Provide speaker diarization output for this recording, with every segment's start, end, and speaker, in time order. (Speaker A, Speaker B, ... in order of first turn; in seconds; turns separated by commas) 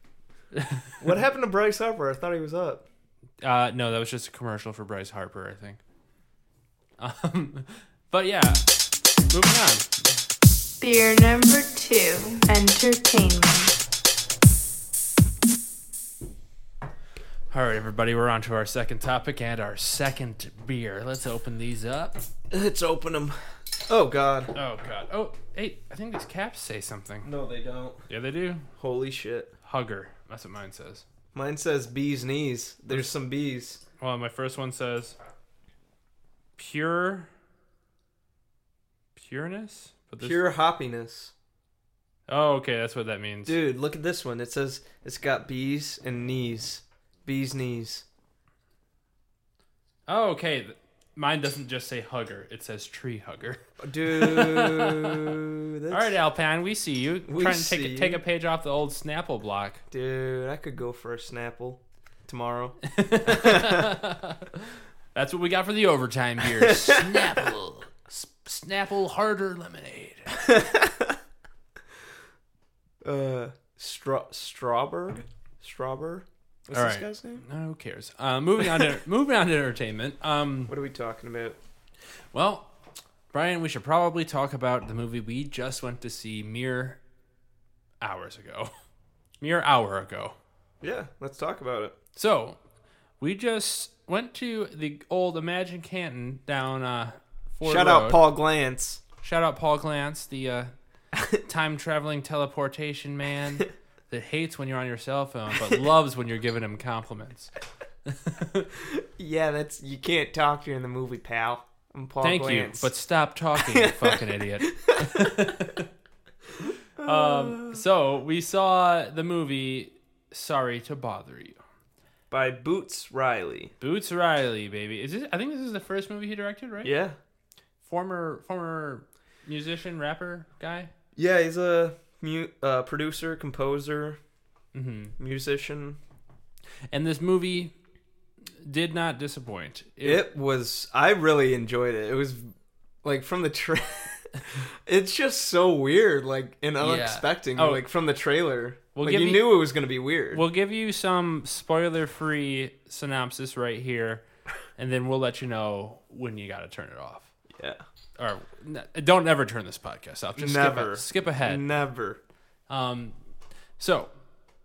Speaker A: 0.5-1.1, Speaker B: 1.0-2.9, Speaker A: 3.4-5.8, Speaker A: 7.0-8.6, Speaker A: 9.3-10.1, Speaker C: 10.8-13.8, Speaker A: 17.5-22.2, Speaker B: 22.5-24.5, Speaker A: 24.5-27.3, Speaker B: 27.2-28.1, Speaker A: 28.1-28.7, Speaker B: 28.8-29.5, Speaker A: 29.6-31.1, Speaker B: 31.3-33.8, Speaker A: 34.0-35.2, Speaker A: 36.6-37.3, Speaker A: 39.1-40.4, Speaker B: 40.2-41.3, Speaker A: 42.3-43.6, Speaker B: 43.5-48.1, Speaker A: 50.1-55.3, Speaker B: 53.8-56.2, Speaker A: 55.9-59.8, Speaker B: 57.3-58.2, Speaker B: 59.9-63.9, Speaker A: 62.8-70.3, Speaker B: 66.6-67.3, Speaker B: 70.3-71.2, Speaker B: 73.0-77.5, Speaker A: 76.7-80.8, Speaker B: 80.7-81.6, Speaker A: 82.3-82.7, Speaker A: 83.3-87.0, Speaker A: 88.0-88.7, Speaker A: 89.4-90.4, Speaker B: 90.8-92.0, Speaker A: 92.2-92.6, Speaker A: 93.2-98.2, Speaker B: 97.6-99.0, Speaker A: 99.2-100.7, Speaker A: 101.3-107.5, Speaker A: 108.1-108.7, Speaker B: 108.8-112.9, Speaker A: 112.2-115.9, Speaker B: 113.6-115.5, Speaker B: 117.0-117.8, Speaker A: 117.0-121.6, Speaker B: 122.3-123.7, Speaker A: 123.8-126.9, Speaker B: 126.8-127.2, Speaker A: 127.8-130.9, Speaker B: 131.2-134.2, Speaker A: 134.7-135.2, Speaker B: 135.2-136.0, Speaker A: 136.9-137.7, Speaker A: 138.6-140.3, Speaker B: 140.0-142.5, Speaker B: 143.0-150.4, Speaker A: 146.8-147.8, Speaker A: 148.9-149.5, Speaker A: 150.3-154.2, Speaker A: 154.8-157.3, Speaker B: 157.5-157.8, Speaker A: 158.2-161.7, Speaker B: 160.4-162.2, Speaker A: 162.7-163.2, Speaker A: 163.8-164.1